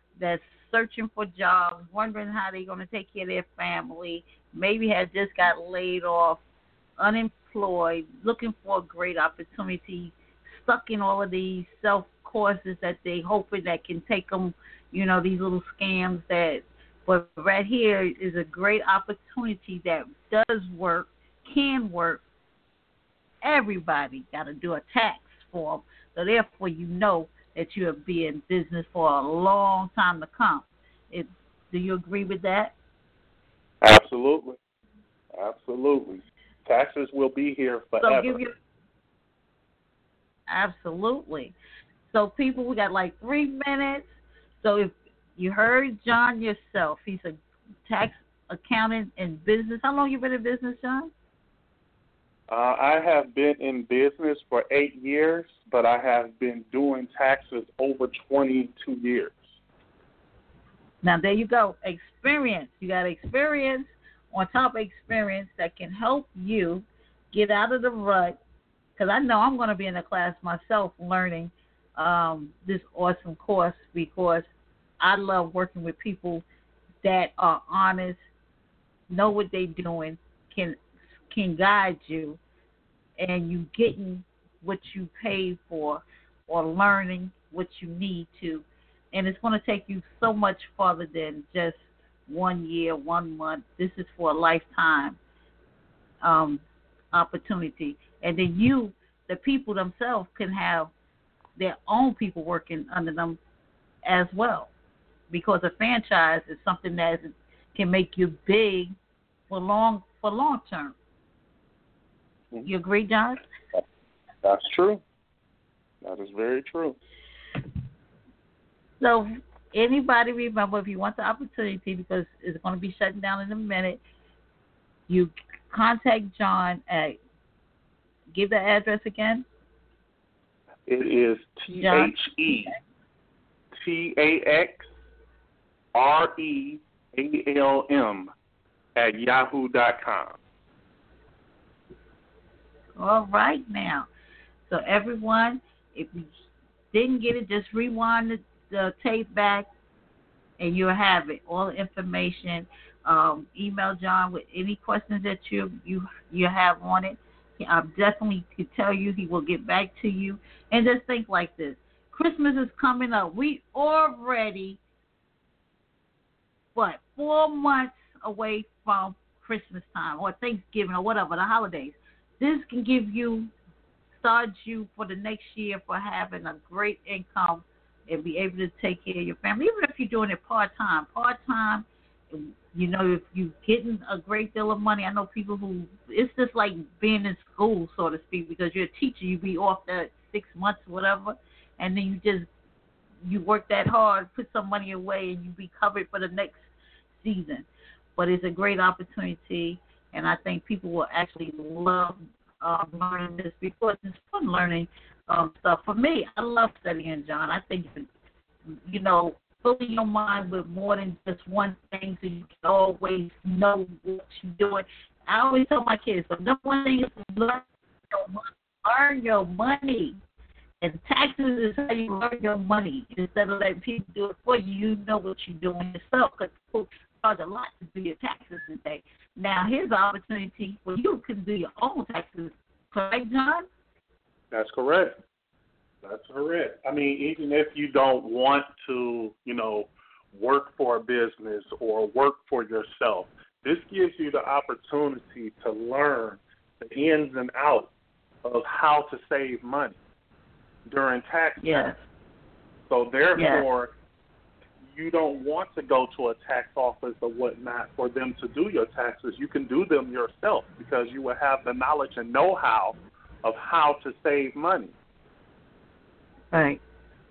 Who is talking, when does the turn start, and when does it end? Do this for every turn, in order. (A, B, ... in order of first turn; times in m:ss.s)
0:00.2-0:06.4 A
0:07.0-0:22.2 A
0:23.4-0:32.7 A
0:33.8-0:34.6 B
0:35.3-0:38.4 B
0:38.0-0:38.5 A
0:40.5-0:41.5 A
0:42.1-0:51.1 A
0:52.5-0:59.4 B
1:01.0-1:08.4 A
1:09.0-1:16.4 A
1:17.0-1:18.2 A
1:19.1-1:22.4 A
1:23.2-1:35.2 A
1:36.2-1:40.9 A
1:41.6-1:43.4 A
1:44.0-1:44.7 A
1:45.3-1:49.0 A
1:49.5-1:50.9 A
1:52.6-1:53.4 A
1:54.4-1:55.0 B
1:56.0-1:57.0 B
1:59.0-2:04.0 A
2:05.1-2:07.2 A
2:08.3-2:09.4 A
2:10.9-2:12.7 B
2:11.8-2:12.8 A
2:13.8-2:14.9 B
2:15.9-2:18.3 B
2:19.0-2:20.4 B
2:23.0-2:24.1 A
2:24.6-2:26.3 A
2:26.9-2:29.7 A
2:30.6-2:44.8 A
2:46.7-2:53.5 A
2:54.2-3:12.5 A
3:13.2-3:28.1 A
3:28.8-3:40.2 A
3:40.8-3:53.6 A
3:54.5-3:55.2 B
3:56.0-4:07.9 B
4:08.4-4:10.0 B
4:10.9-4:11.9 B
4:11.6-4:12.0 A
4:12.9-4:13.9 B
4:13.4-4:13.6 A
4:14.8-4:24.9 B
4:26.5-4:26.8 A